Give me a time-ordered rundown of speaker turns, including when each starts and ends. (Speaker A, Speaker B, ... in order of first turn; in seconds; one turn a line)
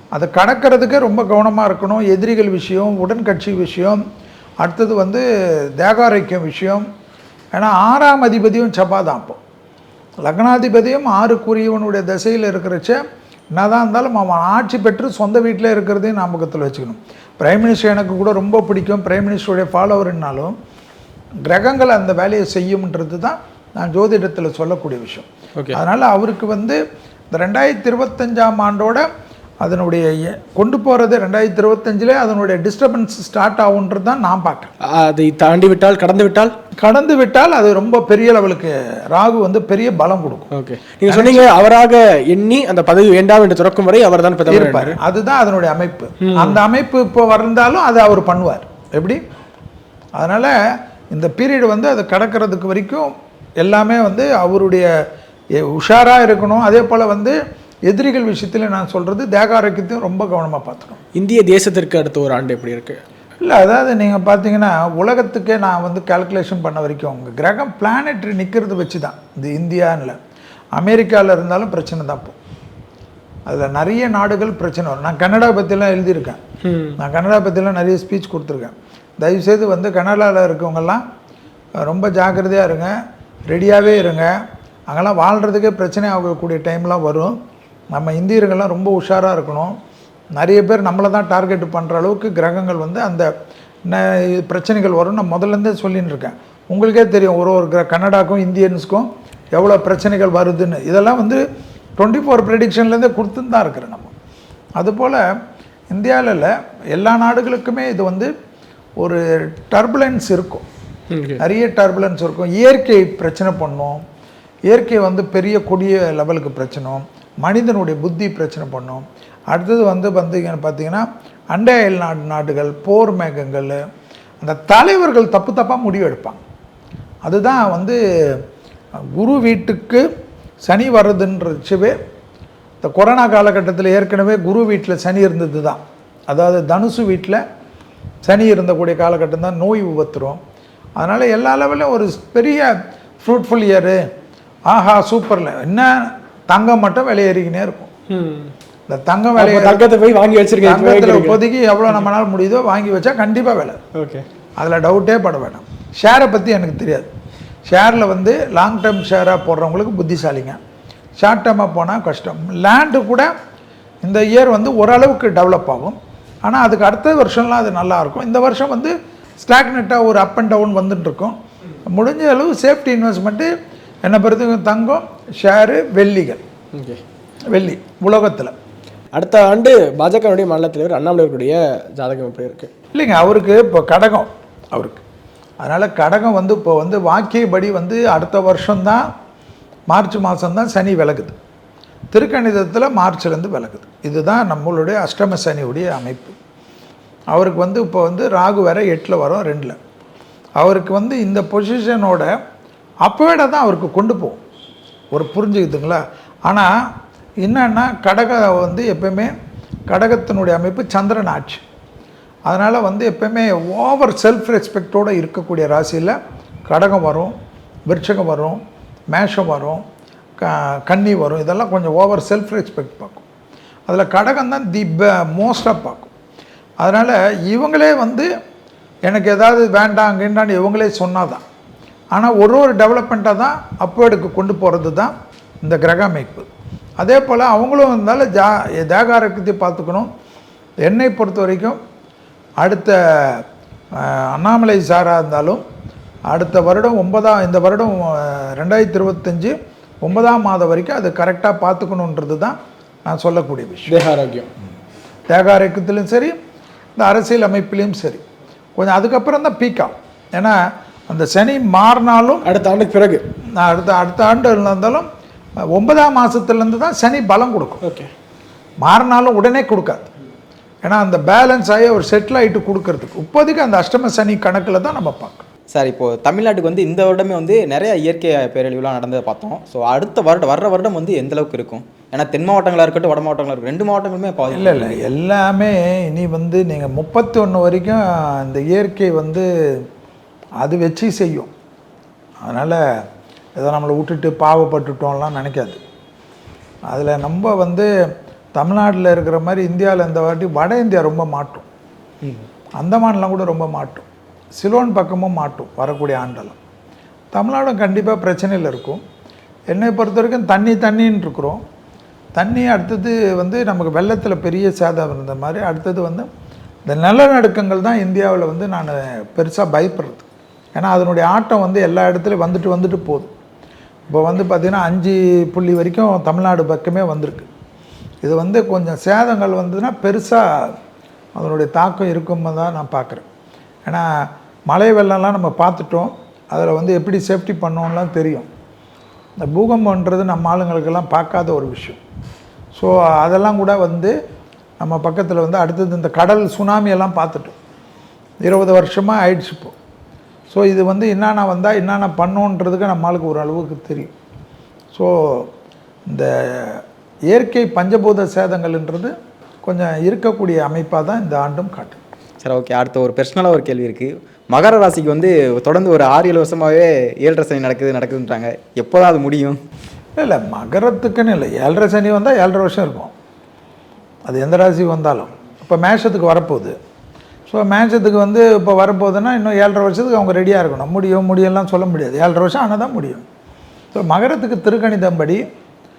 Speaker A: 0.1-4.0
Speaker A: 4.6-5.2
Speaker A: 5.8-6.9
Speaker A: 7.5-9.4
Speaker A: 10.2-13.0
Speaker A: 13.5-20.6
Speaker A: 21.5-26.8
Speaker A: 27.3-29.1
Speaker A: 29.6-34.7
Speaker B: 34.9-36.5
Speaker A: 36.8-40.5
Speaker B: 40.5-45.0
Speaker A: 41.1-41.5
Speaker A: 44.5-49.2
Speaker B: 46.2-46.6
Speaker A: 50.2-54.9
Speaker A: 55.6-61.0
Speaker B: 61.2-63.0
Speaker A: 63.4-70.2
Speaker A: 70.7-72.4
Speaker A: 73.5-76.4
Speaker B: 76.6-77.0
Speaker A: 77.0-81.0
Speaker A: 81.8-84.3
Speaker A: 84.9-87.4
Speaker A: 87.9-89.8
Speaker A: 90.3-93.3
Speaker A: 93.8-101.4
Speaker A: 102.0-104.1
Speaker A: 104.8-105.2
Speaker A: 105.9-108.3
Speaker A: 109.0-110.7
Speaker B: 111.1-111.4
Speaker A: 111.4-114.0
Speaker A: 114.7-123.8
Speaker A: 124.4-126.4
Speaker A: 127.3-128.4
Speaker A: 129.2-130.0
Speaker A: 130.7-132.0
Speaker A: 132.8-137.4
Speaker A: 138.2-140.4
Speaker A: 141.0-144.0
Speaker A: 144.7-147.9
Speaker B: 148.1-148.5
Speaker A: 148.9-149.9
Speaker B: 149.4-151.4
Speaker A: 150.6-153.8
Speaker B: 154.0-154.2
Speaker A: 154.6-157.1
Speaker A: 157.7-160.6
Speaker A: 161.2-163.3
Speaker A: 164.0-173.5
Speaker A: 174.0-176.4
Speaker B: 176.8-177.0
Speaker A: 177.5-178.6
Speaker B: 179.2-182.7
Speaker A: 182.9-185.0
Speaker A: 185.6-189.1
Speaker A: 189.9-191.4
Speaker A: 192.1-196.3
Speaker A: 197.3-199.8
Speaker A: 200.6-202.3
Speaker A: 203.0-204.4
Speaker A: 205.1-209.3
Speaker A: 209.9-211.6
Speaker A: 212.5-217.4
Speaker A: 217.9-219.8
Speaker A: 220.4-223.2
Speaker A: 223.9-226.1
Speaker A: 226.8-228.3
Speaker A: 229.1-231.4
Speaker A: 232.1-236.5
Speaker A: 237.0-240.1
Speaker A: 240.9-241.8
Speaker A: 242.6-245.6
Speaker A: 246.3-254.0
Speaker B: 253.9-254.5
Speaker A: 255.3-256.4
Speaker A: 257.0-258.2
Speaker A: 258.8-262.4
Speaker B: 262.5-263.2
Speaker A: 263.6-265.1
Speaker A: 265.7-267.8
Speaker B: 267.8-268.1
Speaker A: 268.8-270.1
Speaker A: 270.8-275.5
Speaker C: 275.7-285.0
Speaker A: 284.5-289.9
Speaker A: 290.6-291.5
Speaker A: 292.4-292.8
Speaker A: 293.6-295.8
Speaker A: 296.9-297.9
Speaker A: 298.6-301.7
Speaker A: 302.8-304.1
Speaker A: 304.6-306.6
Speaker A: 307.3-309.0
Speaker A: 309.7-311.6
Speaker A: 312.4-316.3
Speaker A: 316.9-323.3
Speaker A: 324.1-327.5
Speaker A: 328.2-330.8
Speaker A: 331.4-333.3
Speaker A: 333.9-338.5
Speaker A: 339.4-342.0
Speaker A: 342.7-344.1
Speaker A: 344.8-347.6
Speaker A: 348.4-349.8
Speaker A: 350.5-354.1
Speaker A: 354.9-355.5
Speaker A: 356.1-362.0
Speaker C: 362.4-369.6
Speaker A: 370.2-373.1
Speaker A: 374.3-376.8
Speaker A: 377.5-383.2
Speaker A: 383.9-385.4